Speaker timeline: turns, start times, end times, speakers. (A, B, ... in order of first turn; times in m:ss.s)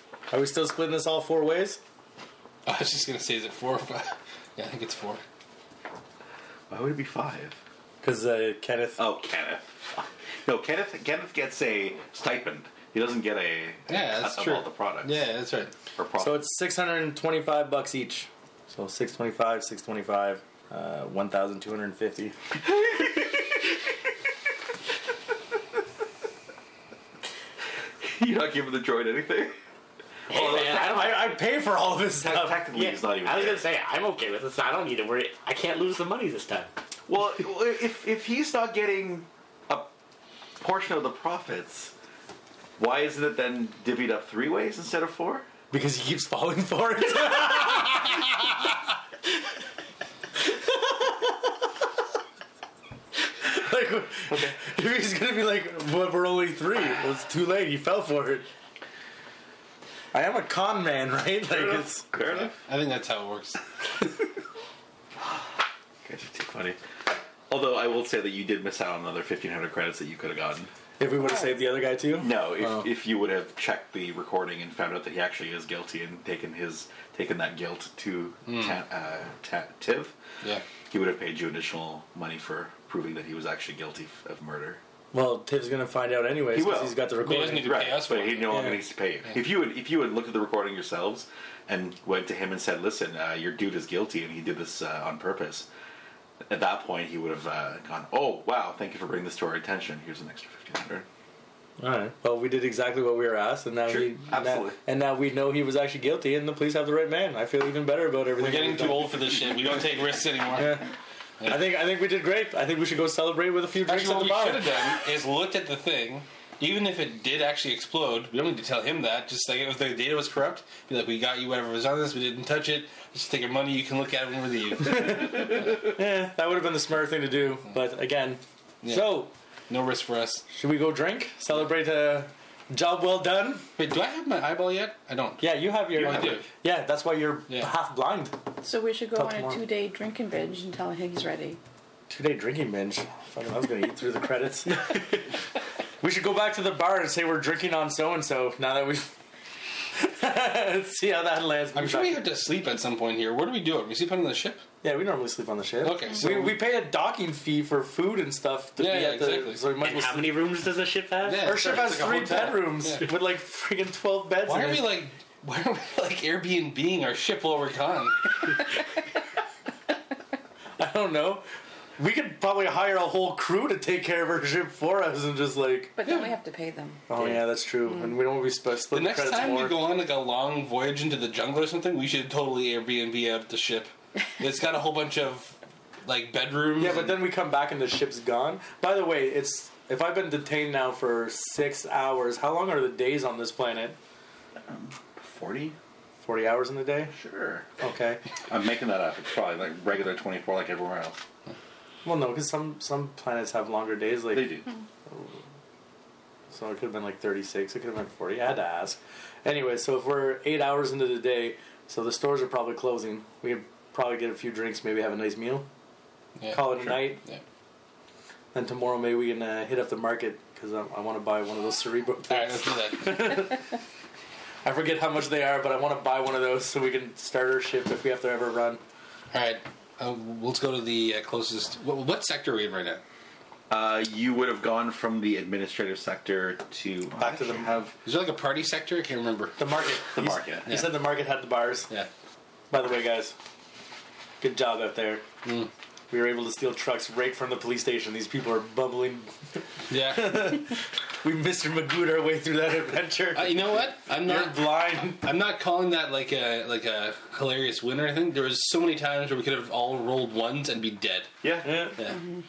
0:00.3-0:01.8 A
0:02.6-0:05.2 B
0:06.7-0:07.6 C
0:08.0-0:09.0 A
0:09.0-0:15.2 C
0:13.9-0:15.7 B
0:16.0-0:16.4 C
0:16.2-0:22.4 A
0:22.7-0:23.6 C
0:28.0-0:29.6 C
0:30.3-0:31.2 C
0:30.3-0:31.3 D
0:30.6-0:32.6 A
0:32.2-0:33.6 C
0:32.7-0:36.7 D
0:37.1-0:39.9 C
0:40.6-0:41.9 C
0:42.8-0:45.4 C
0:45.7-0:48.5 A
0:50.5-0:51.3 A
0:53.4-0:58.5 A
0:54.3-0:54.6 C
1:00.1-1:02.1 A
1:01.5-1:02.6 C
1:02.3-1:03.6 B
1:06.0-1:06.8 C
1:07.5-1:10.7 C
1:11.0-1:12.9 A
1:12.2-1:20.1 C
1:18.5-1:18.8 B
1:20.9-1:24.8 C
1:25.1-1:27.8 A
1:26.5-1:35.7 C
1:27.2-1:28.7 B
1:28.5-1:28.8 A
1:36.5-1:41.0 C
1:41.8-1:49.3 A
1:43.9-1:44.8 C
1:48.4-1:50.8 B
1:50.6-1:50.9 A
1:51.4-1:51.6 B
1:51.4-1:54.8 A
1:53.8-2:05.6 B
2:04.8-2:09.3 A
2:08.8-2:10.4 B
2:10.5-2:13.6 A
2:13.8-2:16.4 B
2:15.4-2:18.3 A
2:16.0-2:16.4 C
2:18.6-2:21.6 E
2:19.1-2:19.6 A
2:22.1-2:25.2 A
2:26.0-2:29.1 A
2:29.9-2:32.2 A
2:31.7-2:34.6 B
2:34.8-2:40.4 A
2:35.8-2:36.6 B
2:38.8-2:39.6 B
2:39.8-2:41.7 D
2:41.2-2:43.1 B
2:41.4-2:45.0 A
2:44.4-2:48.3 B
2:50.8-2:51.4 A
2:52.0-2:55.9 A
2:56.0-2:57.0 E
2:56.0-2:56.3 B
2:57.1-2:59.8 A
2:58.9-3:05.5 B
3:06.0-3:07.3 B
3:06.8-3:14.0 A
3:14.7-3:15.8 C
3:16.2-3:17.1 A
3:17.1-3:17.6 C
3:17.8-3:18.2 A
3:18.5-3:21.2 C
3:22.0-3:24.6 A
3:24.3-3:24.7 C
3:26.5-3:35.7 A
3:36.4-3:37.4 B
3:36.5-3:37.2 A
3:38.5-3:43.7 A
3:42.3-3:43.5 B
3:44.6-3:48.8 A
3:49.3-3:53.0 B
3:53.7-3:57.9 C
3:57.2-3:57.8 A
3:58.0-3:59.6 B
3:59.6-4:01.9 A
4:00.1-4:00.7 C
4:00.7-4:01.0 B
4:02.7-4:03.3 A
4:04.4-4:05.2 A
4:05.4-4:05.7 B
4:06.1-4:15.2 A
4:09.9-4:10.5 B
4:13.3-4:21.3 B
4:21.4-4:21.8 C
4:21.6-4:22.0 A